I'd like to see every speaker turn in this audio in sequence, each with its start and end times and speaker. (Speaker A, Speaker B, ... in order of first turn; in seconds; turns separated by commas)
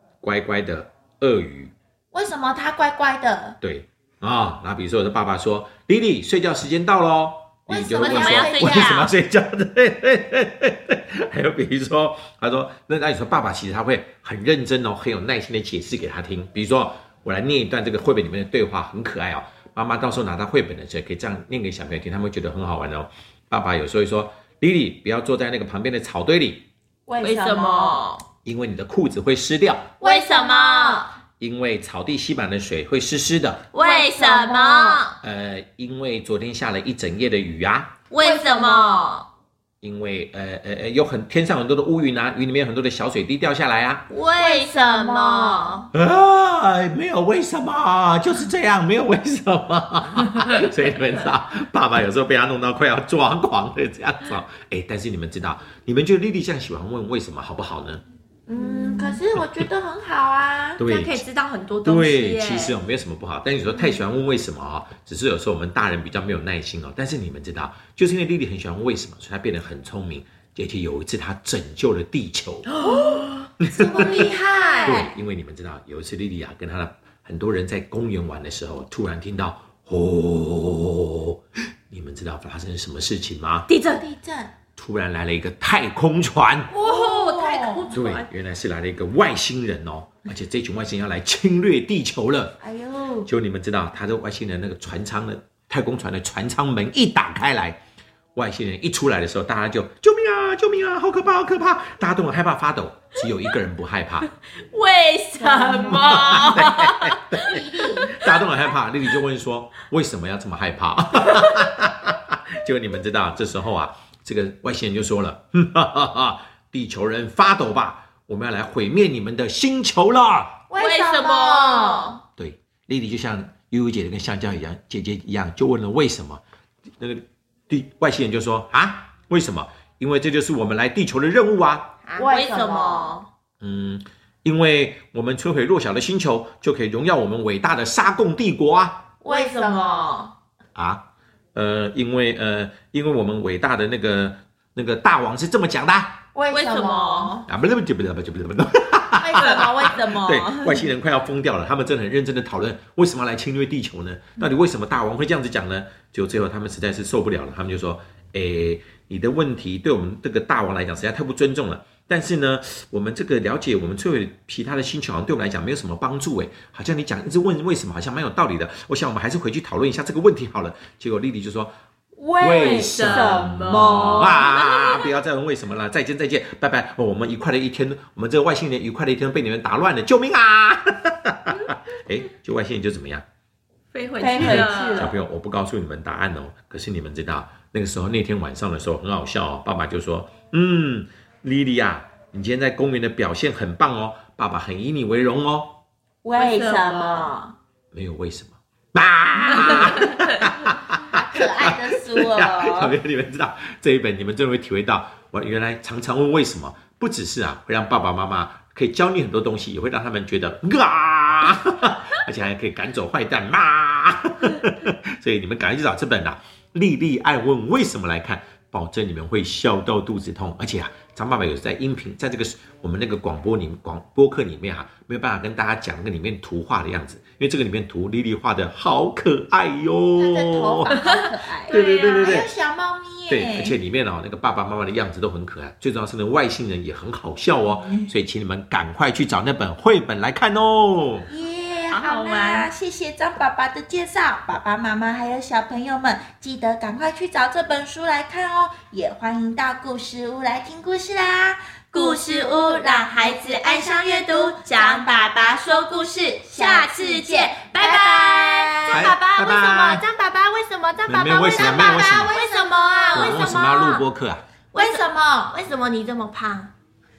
Speaker A: 0.2-1.7, Speaker B: 2.1-3.6, Speaker A: 3.6-26.6, Speaker B: 7.7-9.0, Speaker C: 8.0-9.1, Speaker B: 27.1-28.0, Speaker C: 27.2-28.2, Speaker A: 28.4-29.9, Speaker B: 30.0-31.1, Speaker C: 30.0-31.1, Speaker A: 31.4-33.7, Speaker C: 33.7-35.1, Speaker B: 33.8-35.1, Speaker A: 35.2-37.9, Speaker C: 38.1-39.2, Speaker B: 38.2-39.2, Speaker A: 39.8-44.0, Speaker C: 44.1-45.9, Speaker B: 44.4-45.8, Speaker A: 45.9-58.0, Speaker B: 58.5-60.8, Speaker C: 58.8-59.2, Speaker A: 60.8-61.2, Speaker C: 60.8-62.8, Speaker A: 61.8-72.7, Speaker C: 72.7-73.5, Speaker B: 72.9-75.1, Speaker A: 73.6-74.2, Speaker C: 74.0-74.9, Speaker A: 74.8-83.7, Speaker C: 83.7-84.0, Speaker B: 83.8-84.5, Speaker A: 84.8-86.7, Speaker B: 86.7-87.8, Speaker C: 86.8-88.3, Speaker A: 87.9-92.5, Speaker B: 92.6-93.3, Speaker A: 93.3-97.8, Speaker A: 98.3-104.3, Speaker C: 104.6-107.6, Speaker B: 105.4-106.6, Speaker A: 105.9-120.5, Speaker B: 107.4-108.1, Speaker B: 120.7-122.2, Speaker C: 120.8-122.2, Speaker A: 122.4-126.4, Speaker A: 127.0-131.9, Speaker C: 132.1-133.2, Speaker B: 132.2-133.1, Speaker A: 133.6-139.0, Speaker C: 139.2-140.3, Speaker B: 139.2-140.3, Speaker A: 140.7-141.0, Speaker A: 141.5-146.2, Speaker B: 146.3-147.4, Speaker C: 146.5-147.3, Speaker A: 147.5-171.7, Speaker B: 149.2-150.8, Speaker C: 149.4-149.7, Speaker B: 172.2-174.5, Speaker A: 172.4-183.2, Speaker C: 172.5-175.0, Speaker C: 183.9-185.1, Speaker B: 184.2-185.2, Speaker A: 184.4-195.8, Speaker B: 196.2-197.5, Speaker C: 196.3-197.3, Speaker A: 197.9-230.9, Speaker C: 199.5-200.5, Speaker B: 201.0-202.9, Speaker B: 230.2-233.7, Speaker C: 231.0-232.4, Speaker A: 231.7-232.5, Speaker A: 233.3-241.3, Speaker B: 241.3-255.3, Speaker C: 241.9-242.7, Speaker C: 251.9-264.1, Speaker B: 256.5-259.1, Speaker A: 258.9-260.0, Speaker A: 261.1-262.3, Speaker B: 261.3-263.5, Speaker A: 263.1-264.4, Speaker C: 264.7-266.7, Speaker B: 264.7-265.6